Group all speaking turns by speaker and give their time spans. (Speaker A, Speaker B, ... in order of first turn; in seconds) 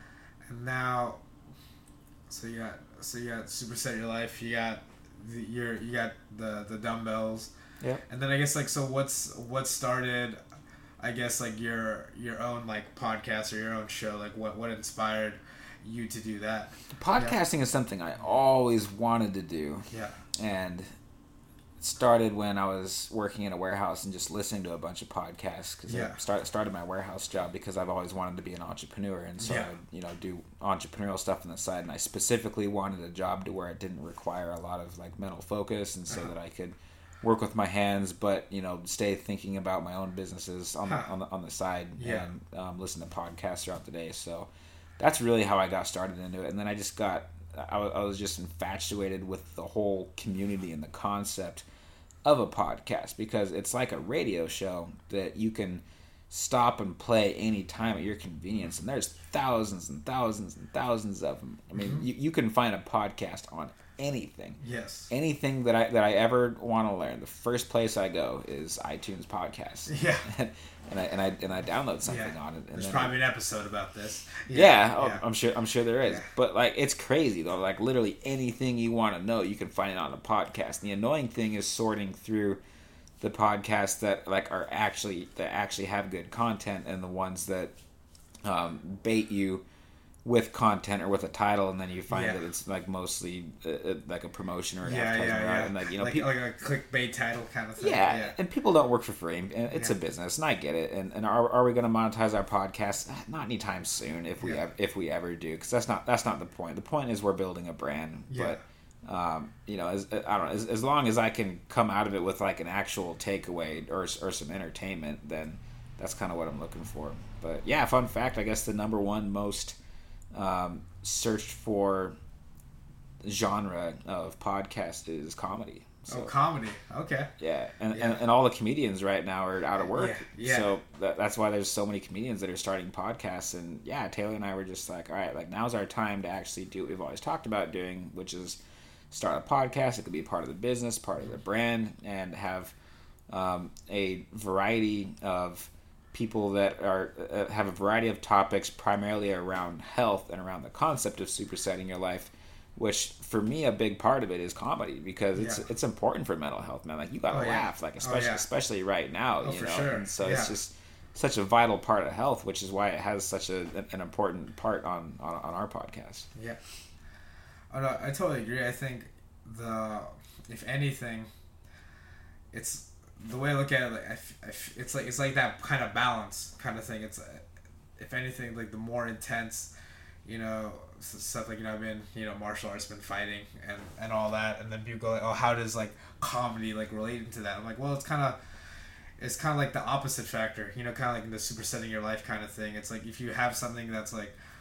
Speaker A: 0.5-1.2, 2.3-7.5, 8.1-10.4, 11.0-17.4, 19.9-20.2, 25.9-26.2, 29.4-29.7, 40.9-41.1, 42.0-42.3, 61.7-62.0, 64.6-65.1, 69.9-70.3, 72.0-75.2, 92.1-92.4, 94.8-98.4, 99.7-100.0, 108.3-108.6, 126.1-127.3, 127.9-128.2, 129.9-130.7, 155.4-155.6, 157.3-158.4, 159.4-160.6, 166.3-166.6, 167.7-171.3, 172.5-177.4, 178.0-179.7, 180.2-188.4, 189.2-194.3
Speaker B: 16.9-20.9, 21.8-51.6, 52.2-73.1, 74.5-82.6, 83.2-87.7, 88.4-89.6, 90.2-96.3, 97.8-119.8, 120.3-122.2, 123.2-126.3, 127.4-138.6, 139.1-142.7, 143.3-166.3